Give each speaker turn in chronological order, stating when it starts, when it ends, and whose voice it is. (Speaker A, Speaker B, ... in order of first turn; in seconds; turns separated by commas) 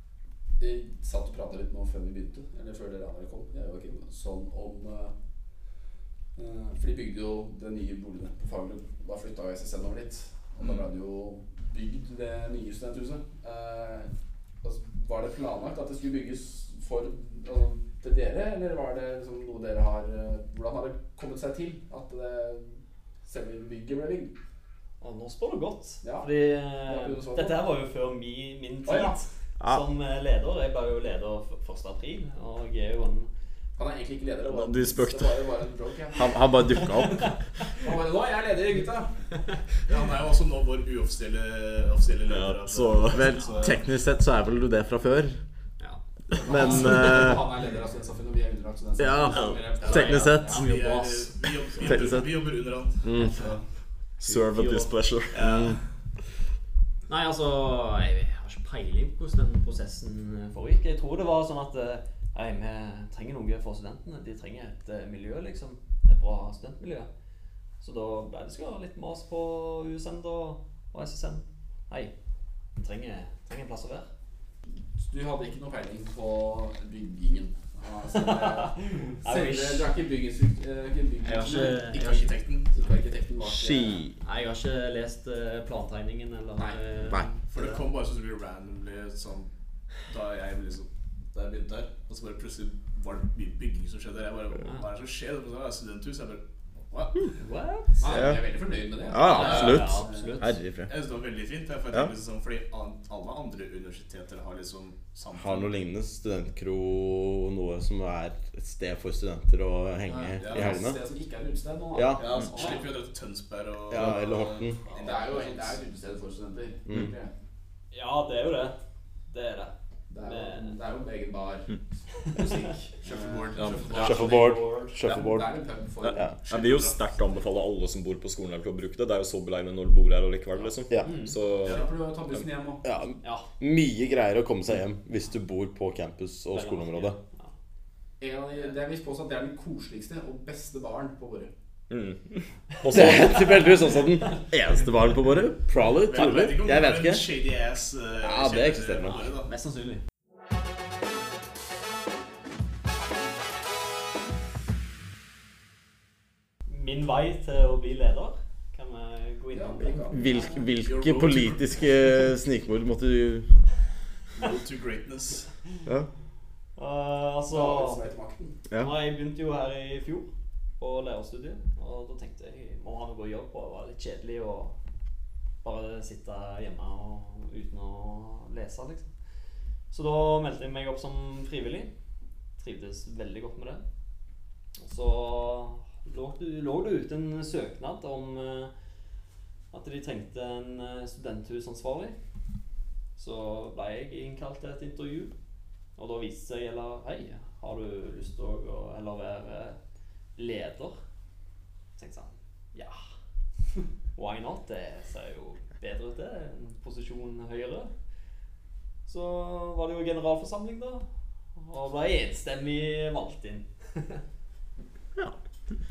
Speaker A: 0.6-5.1, Speaker A: 6.4-14.1, Speaker A: 14.6-24.3, Speaker B: 25.0-33.3, Speaker A: 26.0-26.3, Speaker A: 26.9-27.6, Speaker A: 28.9-29.2, Speaker A: 33.8-36.9, Speaker C: 34.5-35.5, Speaker D: 36.1-37.3, Speaker A: 37.7-39.1, Speaker E: 39.9-43.8, Speaker C: 42.3-43.3, Speaker D: 43.1-45.4, Speaker A: 46.3-50.7, Speaker D: 46.4-47.5, Speaker D: 49.0-50.6, Speaker C: 49.2-50.1, Speaker E: 49.8-53.5, Speaker B: 49.9-51.4, Speaker D: 51.9-52.3, Speaker D: 53.0-53.3, Speaker B: 53.2-53.5, Speaker C: 54.2-55.4, Speaker E: 54.3-55.8, Speaker D: 55.4-55.8, Speaker B: 57.1-67.1, Speaker B: 67.8-72.1, Speaker B: 72.8-74.1, Speaker A: 75.0-81.8, Speaker B: 78.2-79.9, Speaker B: 81.2-82.3, Speaker E: 81.4-82.8, Speaker A: 82.7-84.0, Speaker D: 83.4-84.2, Speaker B: 84.2-87.8, Speaker E: 87.5-89.5, Speaker E: 90.1-97.3, Speaker B: 97.4-98.3, Speaker A: 98.0-100.4, Speaker D: 98.1-98.4, Speaker D: 99.1-100.9, Speaker B: 99.2-100.5, Speaker E: 99.3-99.8, Speaker E: 100.9-105.7, Speaker D: 105.3-111.0, Speaker E: 110.3-110.8, Speaker A: 110.5-112.9, Speaker D: 111.9-112.2, Speaker E: 112.2-115.8, Speaker B: 112.5-112.8, Speaker D: 113.9-114.8, Speaker A: 114.9-117.3, Speaker B: 117.9-118.8, Speaker B: 119.3-120.8, Speaker A: 120.1-121.7, Speaker A: 122.2-124.4, Speaker E: 123.0-124.2, Speaker B: 123.9-125.0, Speaker D: 124.0-125.5, Speaker A: 125.0-126.3, Speaker E: 126.4-127.1, Speaker C: 126.5-131.8, Speaker B: 131.0-131.3, Speaker E: 131.6-131.9, Speaker A: 131.7-132.8, Speaker D: 132.8-137.2, Speaker B: 133.2-133.5, Speaker B: 136.5-137.5, Speaker A: 138.2-141.5, Speaker C: 141.9-143.6, Speaker B: 142.8-143.9, Speaker D: 142.9-147.2, Speaker E: 146.0-149.5, Speaker D: 148.2-149.2, Speaker B: 149.4-150.0, Speaker B: 156.7-160.6, Speaker A: 159.5-160.6, Speaker D: 160.1-163.5, Speaker E: 160.8-161.7, Speaker E: 164.3-165.5, Speaker B: 166.8-168.1, Speaker A: 167.5-168.6, Speaker D: 168.7-168.9, Speaker B: 168.8-170.3, Speaker B: 170.8-174.8, Speaker B: 175.6-179.1, Speaker B: 179.9-181.9, Speaker B: 182.6-183.8, Speaker B: 184.8-188.7, Speaker B: 189.7-192.2, Speaker B: 193.2-195.3, Speaker B: 196.0-199.8, Speaker B: 200.4-201.0, Speaker B: 202.0-203.0, Speaker B: 204.2-207.9, Speaker B: 209.1-214.2